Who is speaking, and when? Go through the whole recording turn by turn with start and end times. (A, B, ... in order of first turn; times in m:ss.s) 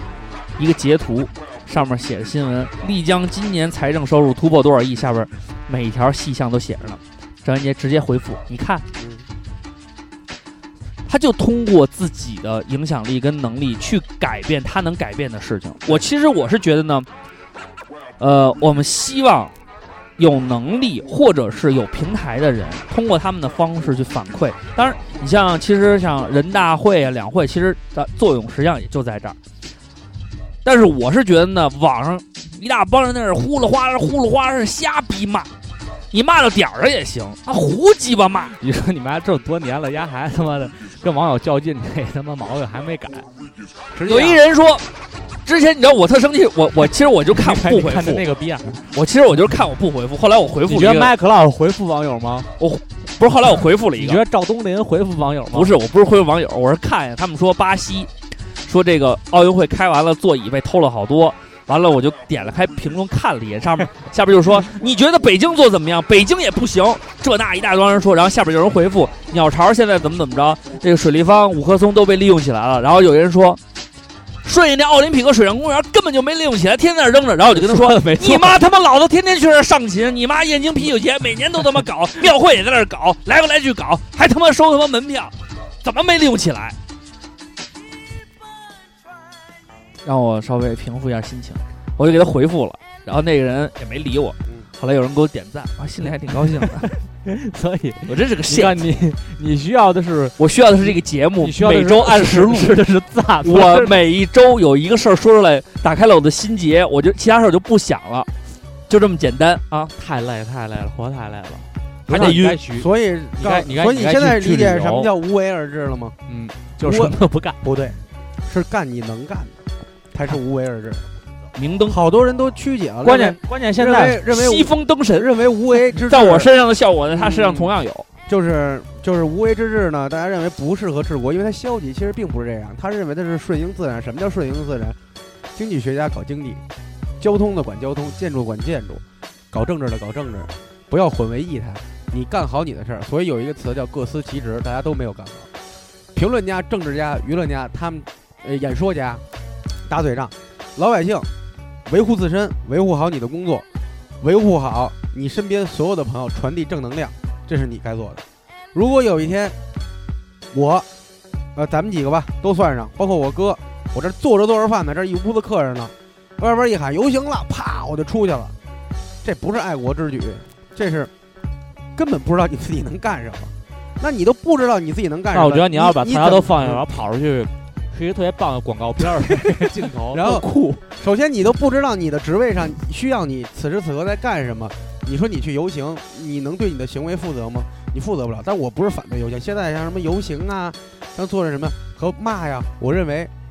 0:00.6-0:08.8 A
0:09.0-0:09.3 B
0:11.1-0:17.1 A
0:18.2-0:19.5 A
0:20.2-0:29.4 A
0:30.6-0:35.5 A
0:36.1-0:38.6 A
0:38.6-0:43.3 C
0:43.9-0:44.4 B
0:44.1-0:44.9 A
0:45.4-0:48.2 A
0:47.3-0:48.9 C
0:48.9-0:51.1 A
0:50.7-0:52.5 C
0:52.6-0:54.2 A
0:54.0-0:55.8 C
0:55.5-0:58.1 A
0:58.6-1:13.6 A
1:14.4-1:26.8 A
1:17.5-1:18.6 C
1:30.0-1:36.9 A
1:36.4-1:44.0 C
1:38.1-1:38.8 A
1:40.4-1:42.8 A
1:43.4-1:48.3 A
1:48.9-1:49.6 A
1:49.7-1:55.1 C
1:52.1-1:52.6 A
1:52.1-1:56.2 B
1:56.3-1:57.6 C
1:56.8-1:59.6 B
2:00.1-2:01.0 B
2:01.6-2:02.0 A
2:01.9-2:06.5 B
2:03.0-2:04.2 C
2:04.3-2:05.3 A
2:06.1-2:08.1 A
2:07.1-2:07.7 B
2:08.3-2:15.0 B
2:15.6-2:16.6 B
2:17.2-2:25.5 B
2:26.1-2:29.2 B
2:29.9-2:31.3 B
2:31.9-2:33.6 B
2:34.2-2:38.2 B
2:38.7-2:39.6 B
2:40.5-2:40.9 B
2:41.6-2:48.5 B
2:49.2-2:51.1 B
2:51.9-2:56.8 B
2:55.3-3:00.5 C
3:00.1-3:13.3 B